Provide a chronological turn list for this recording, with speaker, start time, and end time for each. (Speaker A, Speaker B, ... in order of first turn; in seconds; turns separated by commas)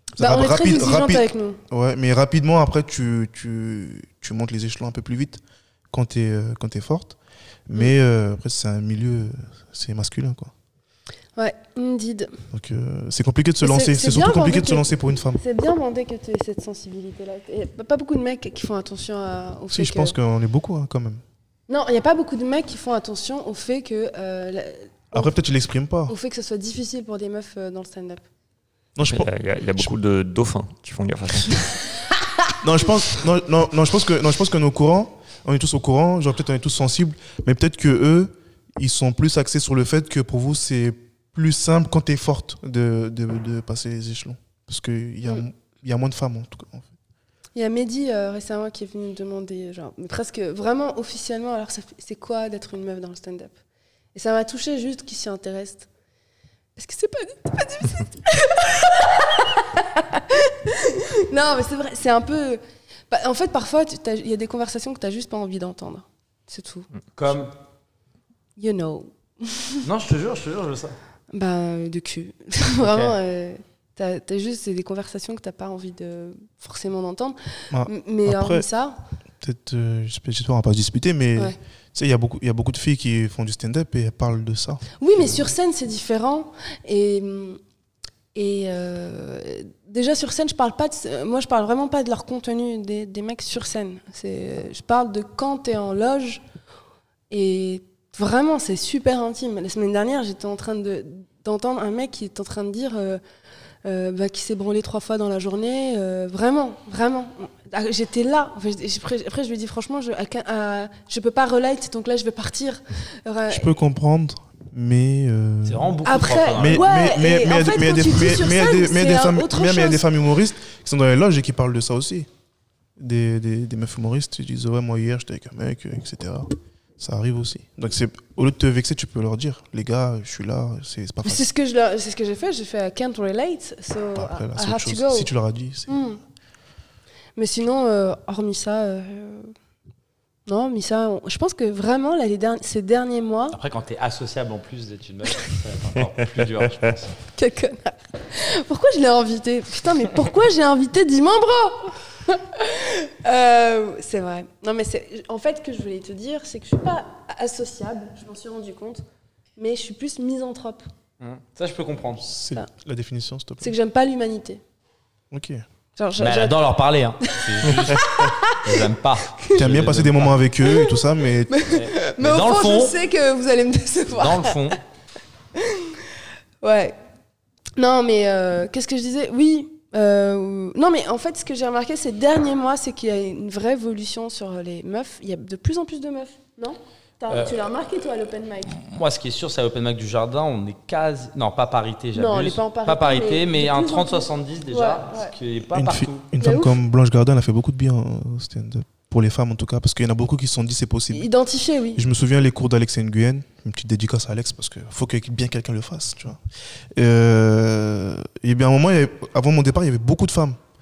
Speaker A: 0.2-7.2, Speaker B: 0.2-1.6, Speaker A: 7.7-10.5, Speaker B: 11.4-12.3, Speaker A: 12.5-15.4, Speaker B: 13.6-20.1, Speaker A: 19.7-21.2, Speaker B: 21.7-25.3, Speaker A: 25.1-26.1, Speaker B: 26.1-28.2, Speaker A: 29.0-29.9, Speaker C: 29.0-31.7, Speaker A: 32.6-46.9, Speaker B: 47.5-53.5, Speaker B: 54.1-55.9, Speaker B: 56.8-66.9, Speaker D: 67.2-67.5, Speaker B: 68.6-69.9, Speaker D: 69.8-71.0, Speaker B: 71.3-79.0, Speaker D: 72.8-73.2, Speaker A: 77.7-78.7, Speaker A: 79.4-85.5, Speaker B: 85.0-87.6, Speaker B: 88.3-96.4, Speaker B: 97.3-103.2, Speaker B: 103.8-113.7, Speaker A: 113.5-116.0, Speaker D: 115.7-116.9, Speaker B: 116.1-120.0, Speaker A: 116.5-122.3, Speaker A: 123.0-131.5, Speaker B: 131.2-135.3, Speaker A: 134.2-136.1, Speaker B: 135.9-136.2, Speaker B: 137.4-139.5, Speaker B: 140.5-143.6, Speaker D: 143.5-147.2, Speaker B: 147.4-159.0, Speaker B: 159.6-160.9, Speaker D: 161.2-162.2, Speaker A: 162.2-163.7, Speaker B: 163.6-164.6, Speaker A: 165.3-165.6, Speaker B: 166.0-166.6, Speaker D: 166.2-170.4, Speaker B: 167.7-168.8, Speaker A: 169.5-171.6, Speaker B: 170.7-174.7, Speaker D: 171.7-173.0, Speaker D: 174.2-174.8, Speaker B: 175.6-176.0, Speaker B: 176.6-177.0, Speaker B: 177.8-188.8, Speaker D: 187.3-187.6, Speaker D: 188.7-196.2, Speaker B: 192.2-195.3, Speaker A: 195.7-201.3, Speaker B: 196.4-196.8, Speaker B: 201.1-202.1, Speaker A: 202.0-206.4, Speaker A: 206.9-210.6